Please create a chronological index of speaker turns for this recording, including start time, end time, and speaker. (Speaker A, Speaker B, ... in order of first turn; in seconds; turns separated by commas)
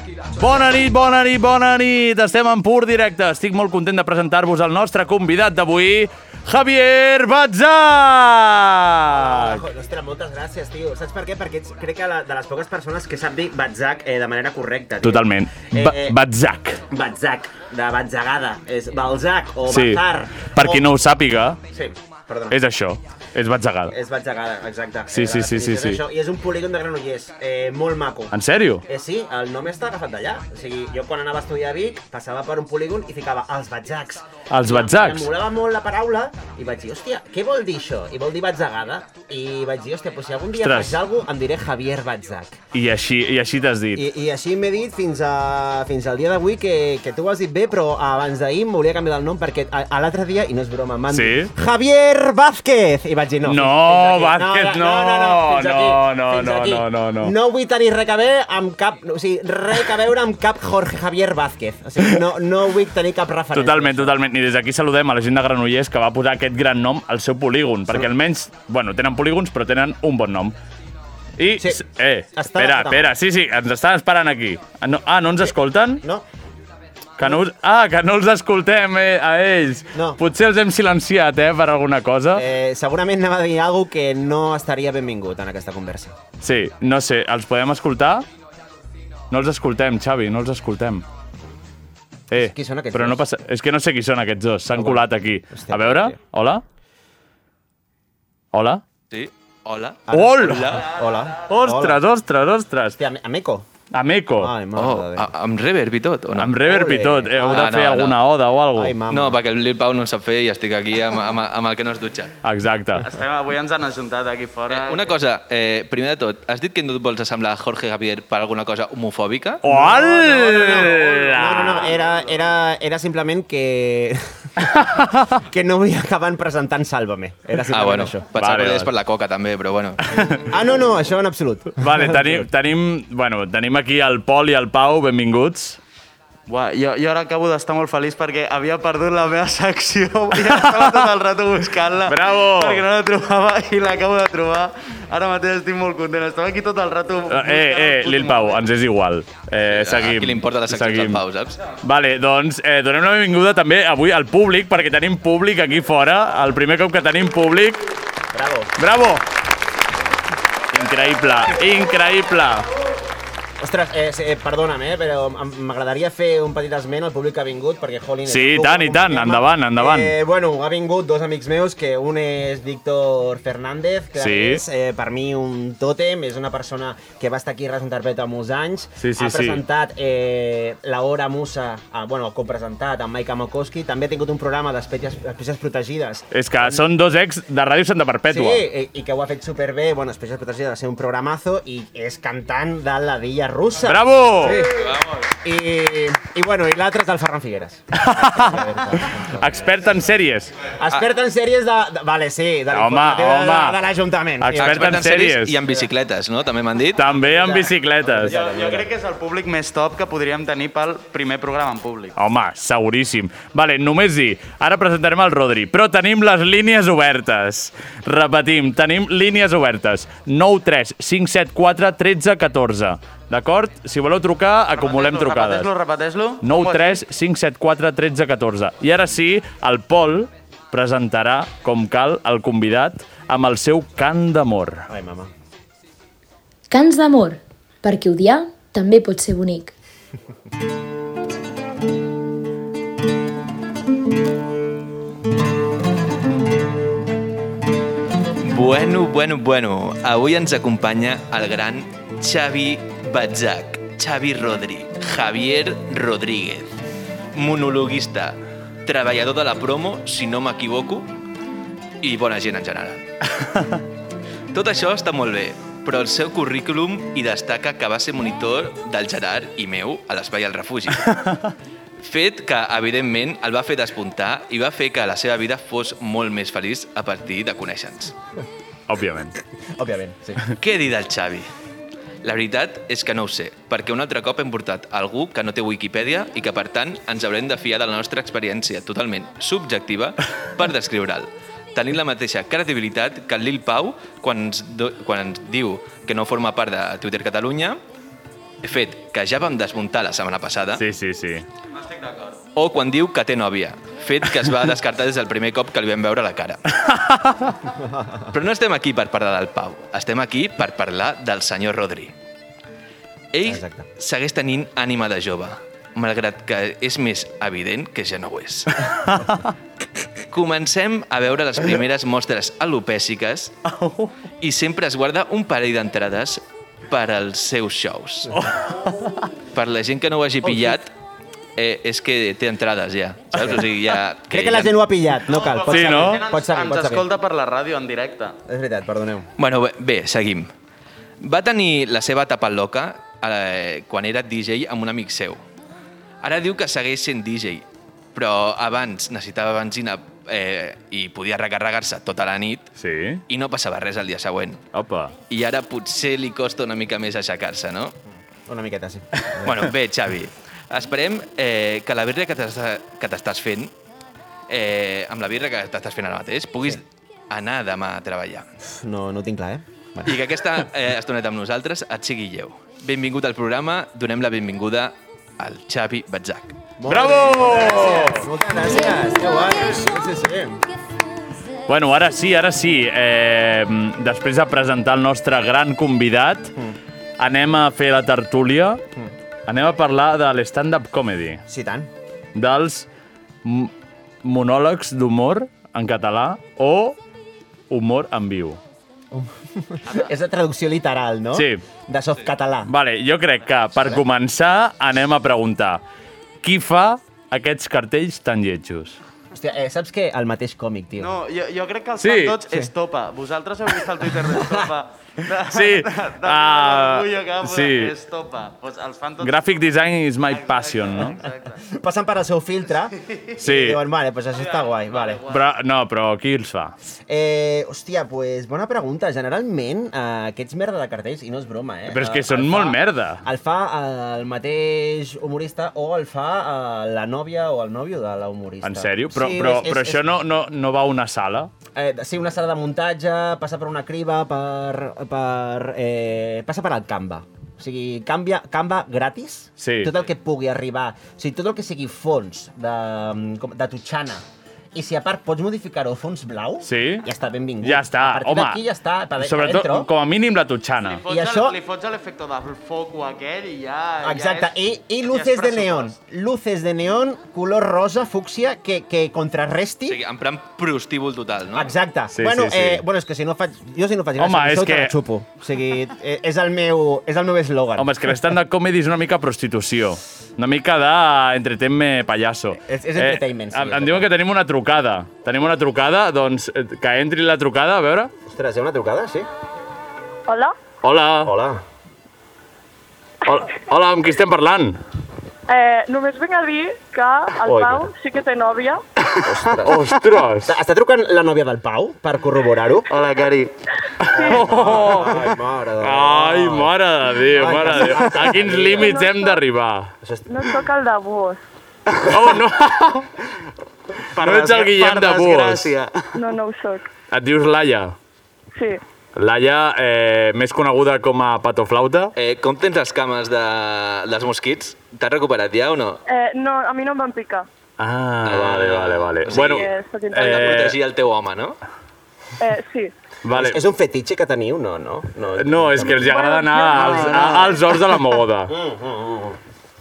Speaker A: 0.3-9.6, Speaker B: 9.1-16.2, Speaker A: 15.0-16.8, Speaker B: 16.9-20.9, Speaker A: 19.7-21.6, Speaker B: 21.7-22.6, Speaker A: 22.5-23.9, Speaker B: 23.9-28.3, Speaker A: 25.1-26.0, Speaker A: 28.3-28.8, Speaker B: 28.9-42.6, Speaker A: 34.5-35.3, Speaker A: 40.6-41.0, Speaker A: 42.7-44.0, Speaker B: 43.9-64.2, Speaker A: 51.1-51.5, Speaker A: 53.4-57.3, Speaker A: 63.5-70.5, Speaker A: 71.4-76.0, Speaker B: 72.3-73.1, Speaker A: 77.2-82.4, Speaker B: 79.9-80.2, Speaker B: 82.3-86.1, Speaker A: 86.4-88.2, Speaker A: 89.3-91.0, Speaker A: 92.3-96.6, Speaker B: 92.3-93.2, Speaker B: 94.7-96.2, Speaker A: 98.5-98.8, Speaker C: 99.1-100.9, Speaker B: 100.1-102.0, Speaker A: 100.1-100.7, Speaker A: 101.5-103.0, Speaker B: 103.0-103.7, Speaker A: 103.9-104.5, Speaker B: 104.4-105.3, Speaker C: 104.8-106.6, Speaker A: 106.3-109.0, Speaker B: 106.6-107.8, Speaker C: 107.4-108.2, Speaker B: 108.7-109.4, Speaker C: 109.1-112.3, Speaker A: 112.4-113.1, Speaker D: 113.0-115.0, Speaker C: 114.7-119.6, Speaker A: 119.6-122.0, Speaker B: 119.6-124.8, Speaker B: 125.4-128.2, Speaker C: 127.7-130.2, Speaker A: 128.4-128.9, Speaker B: 130.4-132.4, Speaker A: 131.8-135.8, Speaker D: 136.5-148.6, Speaker A: 140.4-141.1, Speaker A: 142.1-142.8, Speaker A: 147.3-151.2, Speaker C: 149.6-151.6, Speaker A: 151.8-157.8, Speaker B: 158.3-158.7, Speaker A: 158.8-159.2, Speaker A: 160.7-162.7, Speaker B: 163.6-186.8, Speaker A: 168.2-170.1, Speaker A: 174.2-174.6, Speaker A: 179.0-179.6, Speaker A: 186.3-188.6, Speaker B: 188.3-199.7, Speaker A: 193.8-194.6, Speaker C: 194.6-195.3, Speaker A: 198.0-200.5, Speaker B: 200.7-205.0, Speaker A: 202.7-203.8, Speaker A: 204.4-205.6, Speaker C: 204.5-207.1, Speaker A: 206.9-208.6, Speaker B: 207.2-208.8, Speaker D: 208.2-212.1, Speaker A: 212.2-225.7, Speaker D: 224.8-227.0, Speaker A: 226.4-234.8, Speaker B: 234.9-235.3, Speaker E: 236.7-239.7, Speaker C: 248.4-256.8, Speaker C: 257.3-261.1, Speaker C: 262.0-263.1, Speaker C: 264.5-271.1, Speaker C: 272.0-278.1, Speaker A: 278.9-279.3, Speaker B: 279.8-280.4, Speaker C: 280.6-281.5, Speaker C: 282.2-297.8, Speaker C: 298.6-300.8, Speaker A: 300.8-301.4, Speaker D: 301.8-302.4, Speaker C: 302.5-306.6, Speaker A: 306.9-307.5, Speaker B: 307.9-308.3, Speaker C: 308.3-312.1, Speaker C: 313.3-318.9, Speaker B: 313.4-313.9, Speaker C: 320.3-323.6, Speaker A: 323.7-324.1, Speaker C: 324.4-328.4, Speaker C: 329.5-330.9, Speaker C: 331.6-334.8, Speaker B: 333.4-333.6, Speaker B: 334.3-337.1, Speaker D: 335.3-338.3, Speaker A: 335.7-336.3, Speaker B: 338.5-339.3, Speaker C: 339.4-340.5, Speaker C: 341.2-345.4, Speaker C: 346.2-352.7, Speaker A: 352.8-353.2, Speaker C: 353.3-354.6, Speaker A: 354.7-355.1, Speaker C: 355.3-357.9, Speaker B: 358.5-359.5, Speaker C: 359.4-363.7, Speaker C: 364.5-368.5, Speaker B: 368.7-370.2, Speaker C: 370.0-376.6, Speaker B: 376.8-380.6, Speaker A: 376.9-378.3, Speaker A: 381.7-386.5, Speaker A: 387.2-388.8, Speaker A: 389.5-391.4, Speaker B: 391.5-391.9, Speaker A: 392.3-392.9, Speaker A: 393.4-397.0, Speaker A: 397.7-398.6, Speaker B: 399.1-402.7, Speaker A: 401.3-401.6, Speaker A: 402.6-405.8, Speaker A: 406.4-409.0, Speaker B: 409.3-411.2, Speaker D: 411.0-419.4, Speaker A: 412.0-412.4, Speaker B: 414.4-414.6, Speaker A: 415.5-417.9, Speaker A: 419.2-421.2, Speaker D: 420.3-421.6, Speaker B: 421.7-425.2, Speaker D: 423.0-423.3, Speaker A: 423.4-423.8, Speaker D: 424.3-425.4, Speaker A: 425.3-426.7, Speaker B: 427.1-440.0, Speaker A: 431.9-433.2, Speaker A: 438.6-441.5, Speaker B: 441.7-454.2, Speaker A: 449.6-449.9, Speaker B: 454.7-459.9, Speaker A: 456.6-457.1, Speaker A: 457.6-458.6, Speaker A: 459.2-461.0, Speaker D: 460.8-464.5, Speaker B: 461.1-461.6, Speaker B: 464.0-470.0, Speaker D: 465.1-465.9, Speaker C: 469.9-471.7, Speaker B: 471.5-477.9, Speaker A: 472.1-472.8, Speaker A: 474.2-474.9, Speaker A: 477.8-488.1, Speaker B: 482.7-484.1, Speaker B: 488.3-489.3, Speaker F: 490.3-490.5, Speaker A: 490.8-491.3, Speaker B: 491.2-491.6, Speaker A: 493.2-494.8, Speaker F: 495.5-498.8, Speaker B: 497.5-497.8, Speaker B: 499.2-499.8, Speaker A: 499.6-500.5, Speaker B: 500.5-502.9, Speaker D: 502.9-503.5, Speaker A: 504.0-509.9, Speaker F: 504.1-504.5, Speaker B: 504.1-506.7, Speaker B: 507.3-509.0, Speaker F: 508.7-509.4, Speaker B: 510.0-510.4, Speaker F: 510.3-511.4, Speaker A: 512.1-513.1, Speaker D: 514.1-516.1, Speaker A: 514.2-515.7, Speaker F: 516.1-516.9, Speaker A: 517.1-518.0, Speaker F: 518.5-518.8, Speaker A: 519.1-522.1, Speaker C: 522.1-526.0, Speaker F: 526.1-527.5, Speaker A: 527.8-530.8, Speaker C: 528.2-531.6, Speaker F: 529.4-530.6, Speaker F: 532.4-532.9, Speaker A: 533.2-533.6, Speaker B: 533.3-536.1, Speaker A: 535.4-538.5, Speaker F: 536.0-537.6, Speaker B: 536.7-537.5, Speaker B: 538.5-539.4